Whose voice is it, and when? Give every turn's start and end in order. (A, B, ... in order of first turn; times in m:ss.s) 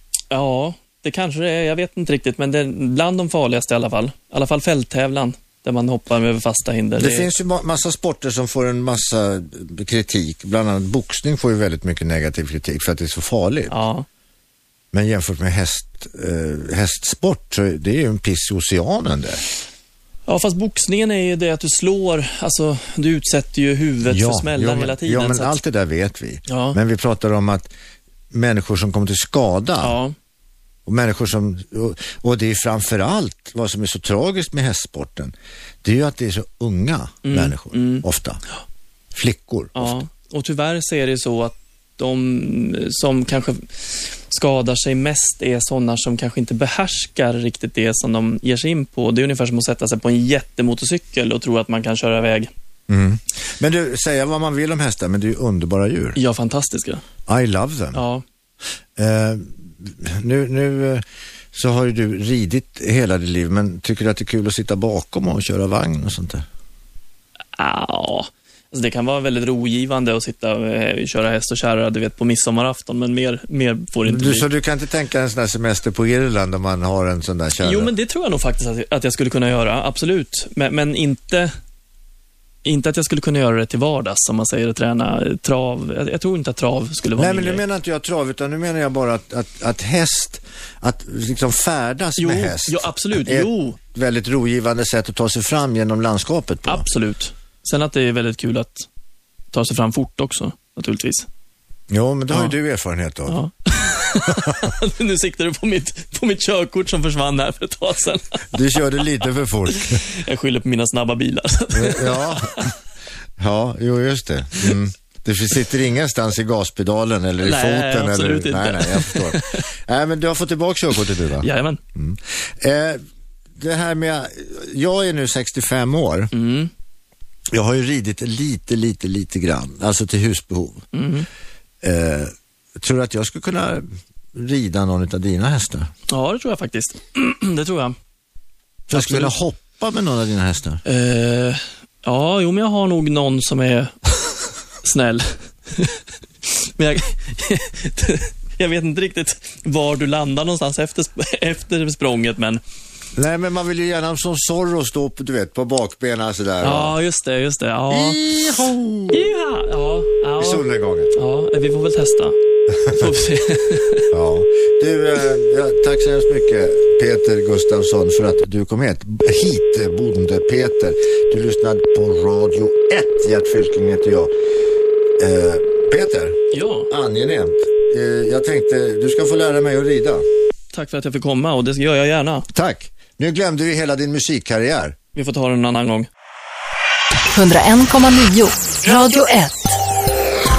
0:00.3-0:07.3 A
0:07.0-0:13.8 B
0:13.7-0:14.0 A
0:14.9-0:19.4 B
0:20.3-0:25.6 A
0:24.1-0:27.7 B
0:26.5-0:26.8 A
0:28.3-0:30.0 B
0:29.8-0:30.1 A
0:30.8-0:35.3 B
0:35.8-0:38.4 B
0:37.2-0:38.0 A
0:39.1-0:40.0 B
0:39.8-0:52.5 A
0:52.9-0:56.2 B
0:56.2-0:57.0 A
0:57.3-0:58.0 B
0:57.9-0:58.2 A
0:59.0-1:06.4 B
1:07.5-1:14.5 A
1:14.0-1:17.9 B
1:17.6-1:21.5 A
1:22.6-1:27.6 A
1:27.2-1:36.8 B
1:32.2-1:33.8 A
1:36.6-1:38.9 A
1:39.5-1:41.3 A
1:41.9-1:43.4 B
1:43.3-1:48.4 A
1:44.3-1:44.5 B
1:48.5-1:50.0 B
1:49.7-1:52.7 A
1:51.7-1:52.7 B
1:53.4-2:03.0 B
1:57.4-1:59.6 A
2:01.4-2:01.8 A
2:03.6-2:06.3 B
2:06.3-2:06.7 A
2:07.5-2:10.8 B
2:10.9-2:11.3 A
2:11.8-2:15.9 B
2:16.1-2:18.0 A
2:18.9-2:20.8 B
2:18.9-2:19.3 A
2:20.8-2:24.3 A
2:24.8-2:32.6 A
2:33.2-2:36.9 B
2:36.6-2:38.3 A
2:37.9-2:39.3 B
2:39.1-2:42.4 A
2:40.4-2:41.1 B
2:42.7-2:43.1 B
2:42.9-2:44.1 A
2:44.1-2:54.3 B
2:55.2-3:00.2 B
2:56.5-2:56.9 A
3:00.7-3:02.5 A
3:02.5-3:05.0 B
3:05.1-3:06.1 A
3:07.2-3:09.8 C